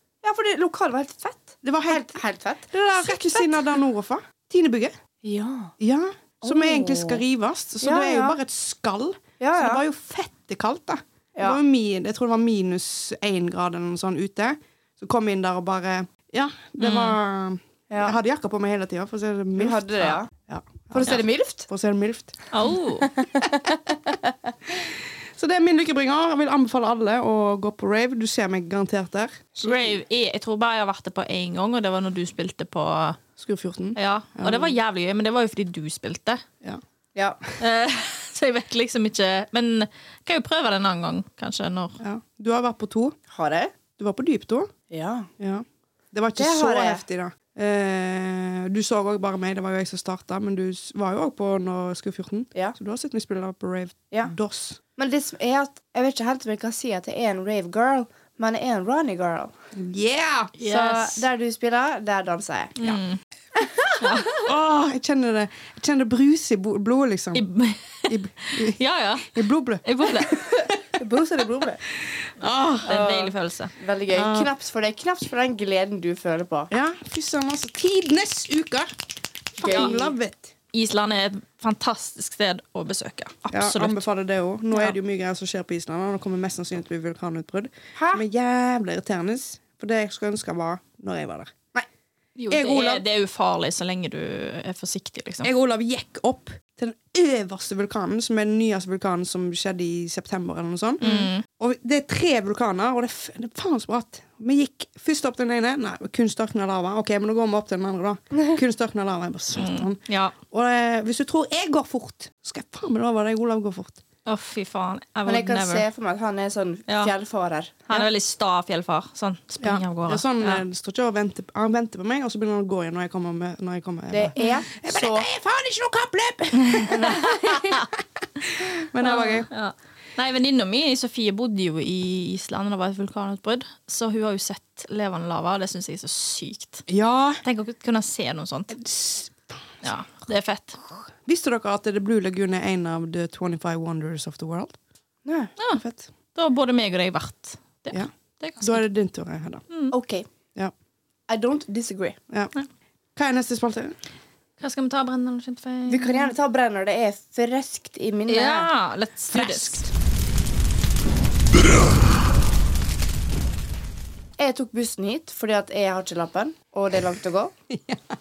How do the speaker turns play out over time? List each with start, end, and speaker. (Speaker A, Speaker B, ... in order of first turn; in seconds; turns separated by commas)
Speaker A: 0.2-3.5, Speaker B: 1.6-2.2, Speaker B: 2.7-4.9, Speaker A: 5.2-5.7, Speaker B: 5.8-22.4, Speaker A: 6.4-7.2, Speaker A: 7.8-8.4, Speaker A: 9.4-9.8, Speaker C: 16.8-17.2, Speaker A: 17.9-18.2, Speaker A: 19.6-20.3, Speaker A: 20.9-21.7, Speaker C: 22.5-23.1, Speaker A: 23.0-24.5, Speaker B: 24.7-29.5, Speaker A: 29.6-30.0, Speaker C: 29.6-33.2, Speaker B: 33.4-34.7, Speaker C: 34.0-36.4, Speaker A: 37.1-37.4, Speaker C: 37.6-42.0, Speaker B: 42.0-43.1, Speaker A: 43.3-43.7, Speaker B: 43.9-44.7, Speaker A: 44.9-45.3, Speaker B: 45.4-54.8, Speaker A: 46.4-47.0, Speaker A: 55.0-59.5, Speaker B: 59.7-60.5, Speaker C: 60.6-61.2, Speaker A: 60.6-63.0, Speaker C: 62.8-63.2, Speaker A: 63.5-64.3, Speaker C: 64.0-64.4, Speaker B: 64.3-67.4, Speaker C: 67.3-70.5, Speaker B: 68.1-68.8, Speaker B: 69.3-70.8, Speaker A: 70.6-71.8, Speaker B: 72.0-72.9, Speaker C: 72.8-73.7, Speaker A: 72.8-76.7, Speaker B: 74.1-74.5, Speaker B: 76.7-78.9, Speaker B: 79.5-80.5, Speaker A: 79.6-80.1, Speaker C: 80.7-84.0, Speaker B: 83.5-91.7, Speaker A: 87.9-88.2, Speaker C: 92.4-95.5, Speaker B: 92.5-93.0, Speaker B: 95.4-114.0, Speaker C: 101.0-101.4, Speaker C: 109.6-110.3, Speaker C: 114.2-115.8, Speaker A: 115.2-118.1, Speaker C: 117.9-120.6, Speaker B: 119.6-127.8, Speaker A: 124.1-125.3, Speaker C: 126.6-127.8, Speaker A: 126.9-127.5, Speaker B: 128.4-129.5, Speaker C: 129.0-136.8, Speaker B: 136.9-137.4, Speaker C: 137.4-138.7, Speaker B: 138.7-139.6, Speaker C: 139.8-140.8, Speaker B: 141.2-144.8, Speaker A: 145.2-145.5, Speaker B: 145.8-146.1, Speaker C: 146.3-148.8, Speaker B: 147.9-149.6, Speaker C: 149.7-149.9, Speaker A: 149.9-150.3, Speaker A: 151.3-152.2, Speaker B: 153.2-154.0, Speaker C: 154.6-156.3, Speaker A: 155.9-158.7, Speaker C: 158.3-159.8, Speaker B: 159.3-159.9, Speaker A: 164.4-167.5, Speaker B: 167.7-168.0